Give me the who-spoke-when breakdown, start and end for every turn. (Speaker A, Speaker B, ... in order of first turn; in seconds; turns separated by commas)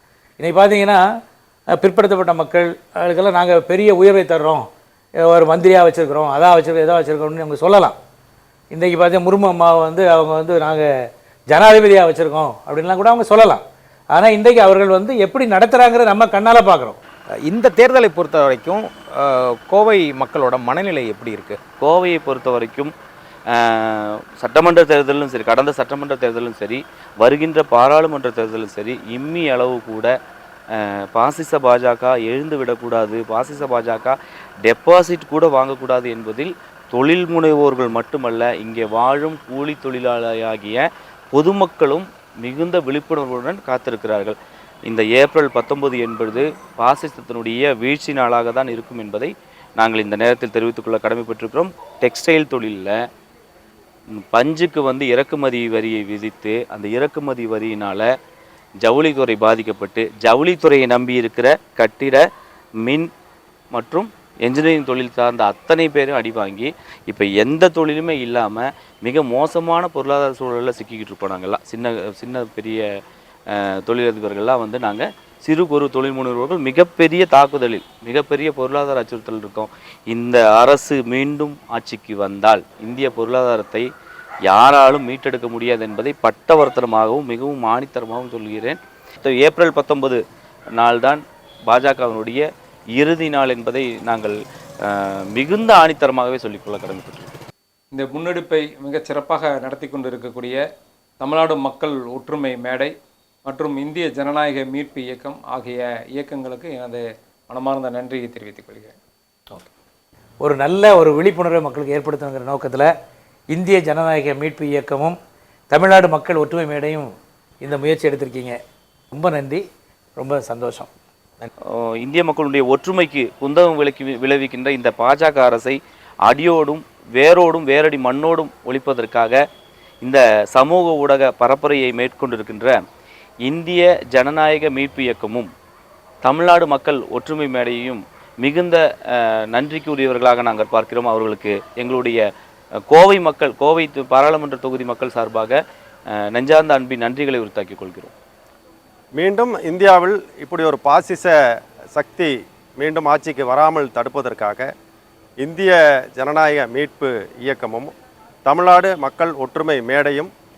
Speaker A: 0.4-1.0, Speaker A: 1.8-4.7, Speaker A: 5.3-8.0, Speaker A: 8.7-10.9, Speaker A: 11.5-17.0, Speaker B: 17.4-21.6, Speaker C: 21.8-22.9, Speaker C: 23.5-30.1, Speaker C: 30.7-44.4, Speaker C: 44.9-52.9, Speaker C: 54.3-58.0, Speaker C: 58.8-62.2, Speaker C: 63.7-72.8, Speaker C: 73.5-83.8, Speaker C: 84.5-90.2, Speaker C: 90.8-92.4, Speaker C: 93.0-97.4, Speaker D: 98.0-100.6, Speaker D: 101.2-102.9, Speaker D: 103.5-107.0, Speaker D: 107.5-108.9, Speaker A: 110.4-112.9, Speaker A: 113.5-115.2, Speaker A: 115.7-117.1, Speaker A: 117.6-118.6, Speaker A: 119.1-119.6, Speaker A: 120.2-120.9, Speaker C: 122.0-129.3, Speaker C: 130.0-132.8, Speaker C: 133.4-135.5, Speaker C: 136.2-138.8, Speaker C: 139.5-142.2, Speaker C: 142.9-145.6, Speaker C: 146.3-148.1, Speaker E: 149.2-151.3, Speaker E: 151.9-154.7, Speaker E: 155.4-157.9, Speaker E: 158.4-160.3